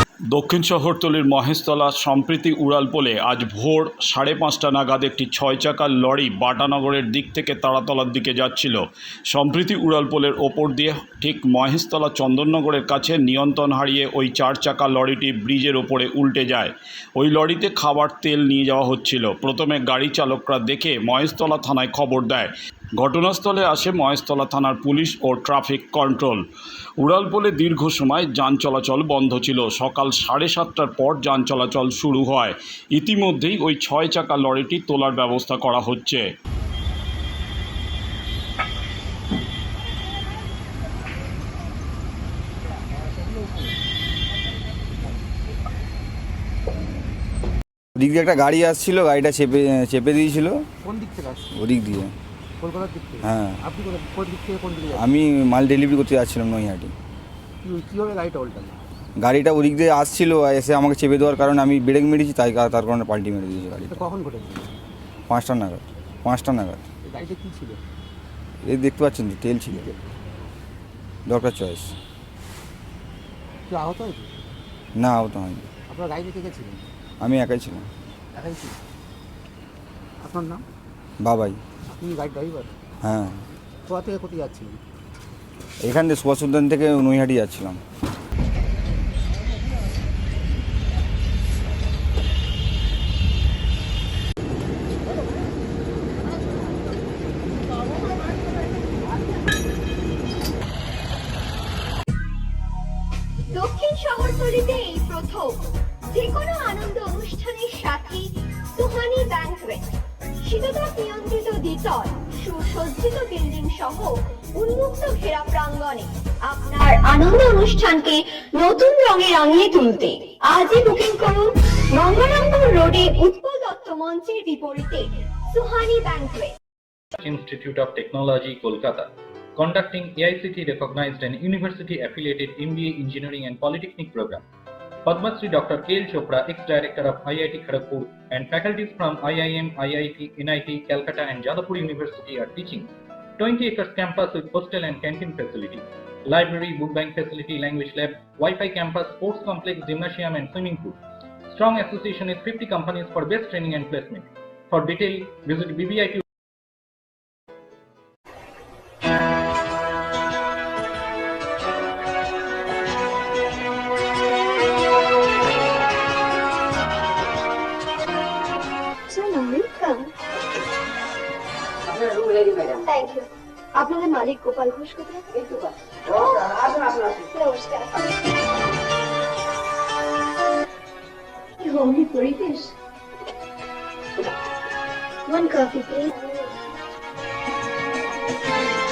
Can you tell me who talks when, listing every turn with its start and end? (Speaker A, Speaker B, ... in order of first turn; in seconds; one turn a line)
Speaker A: 0.3-26.4
Speaker A: 27.0-36.2
Speaker B: 48.0-50.7
Speaker C: 50.8-51.5
Speaker B: 51.5-52.1
Speaker C: 52.6-55.0
Speaker B: 53.3-53.5
Speaker B: 55.0-56.9
Speaker C: 57.6-58.8
Speaker B: 59.2-64.0
Speaker C: 63.9-64.7
Speaker B: 65.3-66.8
Speaker C: 67.0-67.8
Speaker B: 68.7-69.8
Speaker C: 69.7-70.1
Speaker B: 71.3-72.0
Speaker C: 73.7-74.3
Speaker B: 75.0-75.7
Speaker C: 75.9-76.8
Speaker B: 77.2-77.9
Speaker C: 78.3-78.8
Speaker C: 80.2-80.6
Speaker B: 81.2-81.6
Speaker C: 81.9-82.7
Speaker B: 83.0-83.5
Speaker C: 83.9-84.8
Speaker B: 85.8-87.8
Speaker D: 103.5-109.9
Speaker D: 110.4-126.5
Speaker E: 127.2-134.4
Speaker E: 135.1-151.0
Speaker E: 151.5-156.2
Speaker C: 171.9-172.9
Speaker D: 172.9-173.2
Speaker C: 175.3-175.7
Speaker C: 176.2-177.3